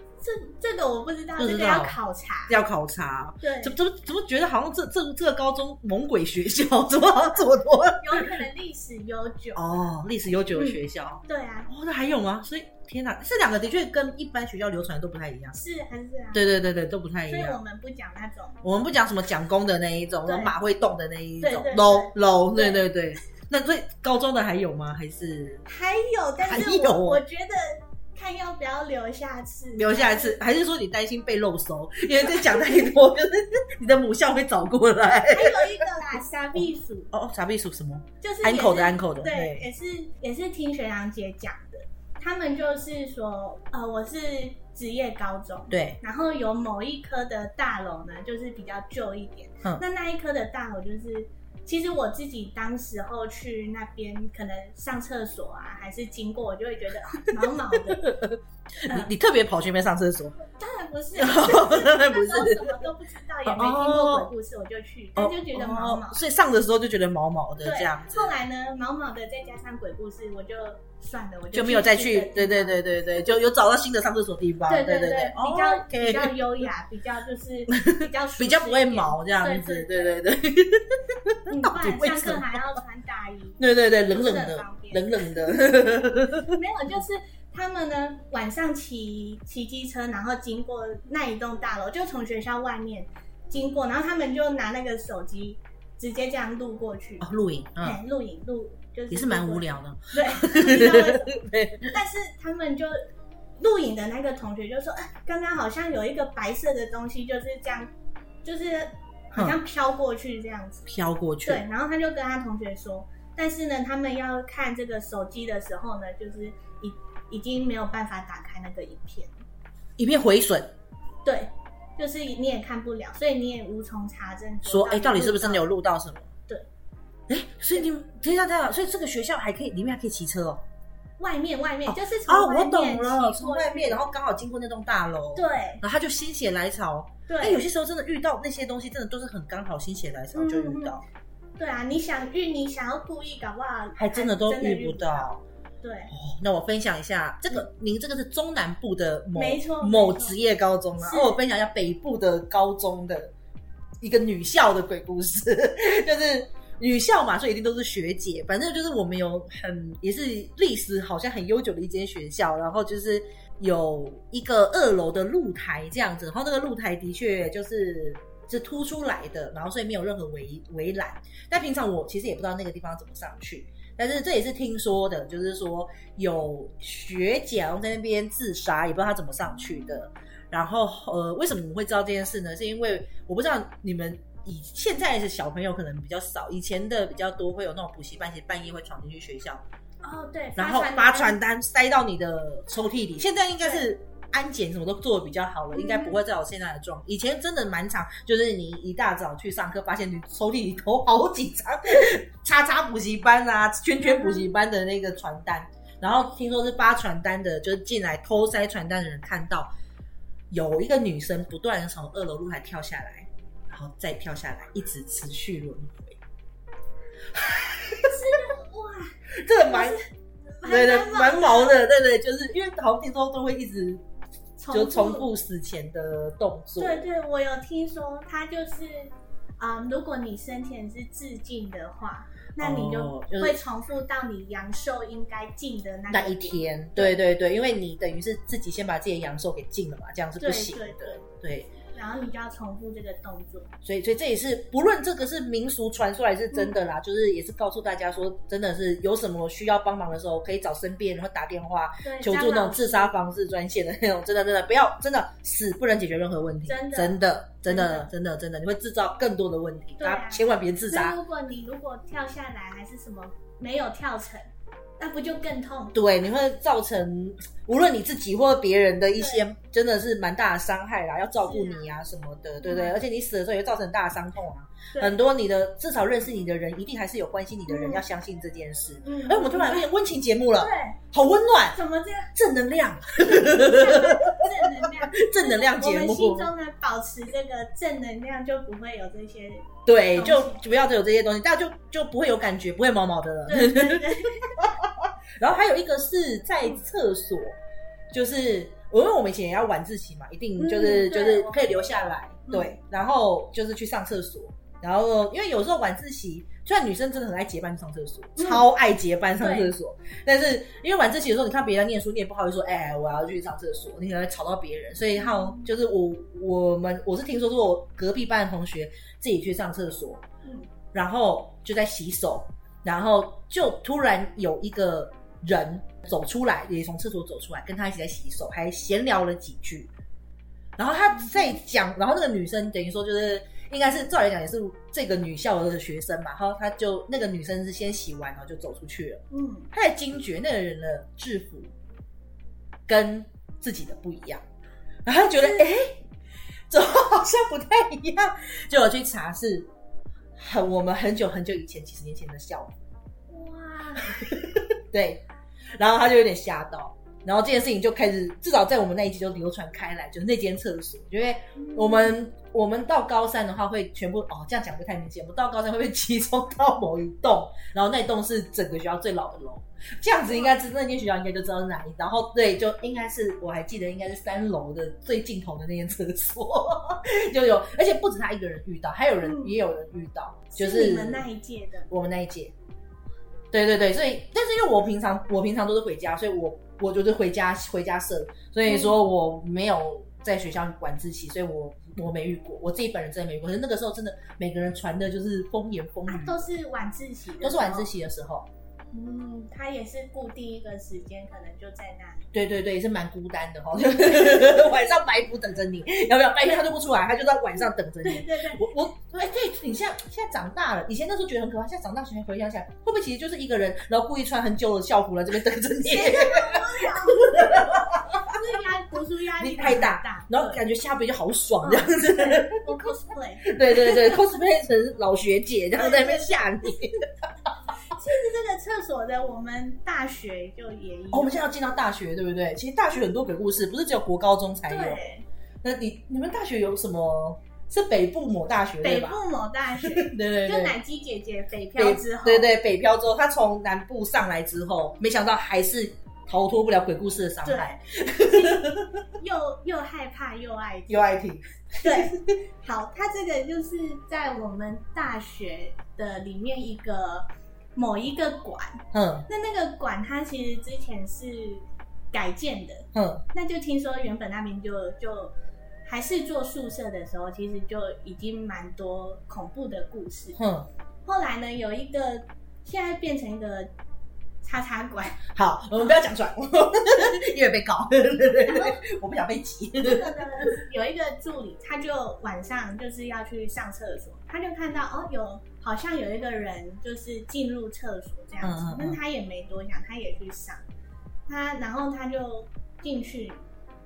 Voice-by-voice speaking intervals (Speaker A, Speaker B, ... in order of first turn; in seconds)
Speaker A: 0.2-2.5, 3.4-3.7, 8.0-9.8, 10.5-11.7, 15.5-16.4, 17.3-18.6, 20.2-20.5, 21.4-22.8, 25.7-30.4, 35.3-37.1, 38.2-58.1, 60.5-66.2, 67.6-72.8, 74.7-80.1, 81.5-85.6, 86.4-97.3, 97.8-103.1, 103.6-107.9, 108.4-110.9, 111.4-119.3, 121.2-125.7, 131.2-134.0, 135.3-135.8, 137.3-137.6, 140.3-141.0, 141.6-145.3, 145.8-146.1, 149.3-150.3, 151.0-151.4, 190.0-191.4, 195.7-196.2, 204.0-204.5, 218.0-220.0, 220.6-221.8, 224.6-225.2, 226.8-237.2, 240.4-241.2, 241.9-243.7, 252.0-253.2, 256.6-258.1, 260.0-264.4, 265.0-265.9, 269.2-269.4, 271.4-271.8, 272.6-273.0, 277.7-278.0, 279.0-279.9, 280.6-281.0, 281.7-282.3, 283.3-290.6, 293.5-294.7, 300.6-302.8, 308.4-308.6, 309.4-309.7, 315.2-315.6, 331.1-331.6, 339.3-339.7, 345.3-345.6, 353.3-354.2, 361.6-362.1, 370.3-370.5, 379.2-379.5, 380.5-381.9, 388.7-389.0, 396.1-397.9, 398.9-402.3, 404.2-404.6, 408.0-408.7, 415.8-420.6, 421.6-424.2, 425.8-426.4, 427.9-431.4, 434.7-435.2, 438.8-442.5, 447.4-447.8, 448.3-448.6, 449.2-451.2, 451.8-465.3, 465.9-470.4, 471.1-473.7, 474.4-475.2, 478.4-478.8, 479.8-490.6, 491.3-493.4
Speaker B: 1.4-8.3, 9.5-15.6, 16.3-17.6, 18.6-25.6, 26.4-27.2, 29.7-35.8, 37.1-39.7, 45.7-46.0, 57.4-60.4, 61.2-62.8, 63.5-64.3, 65.2-68.3, 71.5-76.3, 77.7-82.8, 83.6-86.6, 97.2-98.0, 99.1-101.9, 110.9-111.6, 120.0-120.7, 124.6-126.3, 127.3-130.6, 131.9-141.0, 143.9-145.4, 146.1-153.3, 154.0-189.6, 190.6-209.7, 210.5-216.2, 217.3-218.2, 219.4-220.0, 220.6-224.0, 224.7-227.1, 232.6-233.6, 236.1-241.7, 243.8-261.2, 265.9-281.8, 282.3-286.5, 289.9-297.6, 298.1-320.2, 320.9-329.9, 330.8-341.7, 342.9-344.4, 345.0-346.0, 346.7-349.7, 350.4-352.8, 354.1-355.2, 355.8-381.2, 381.9-382.5, 383.5-396.4, 397.4-398.5, 402.3-418.4, 419.4-422.9, 423.4-427.0, 431.1-435.0, 435.6-439.2, 439.8-440.8, 441.8-449.0, 450.9-452.3, 458.9-459.3, 462.9-463.2, 470.4-470.7, 475.3-480.2, 488.4-489.0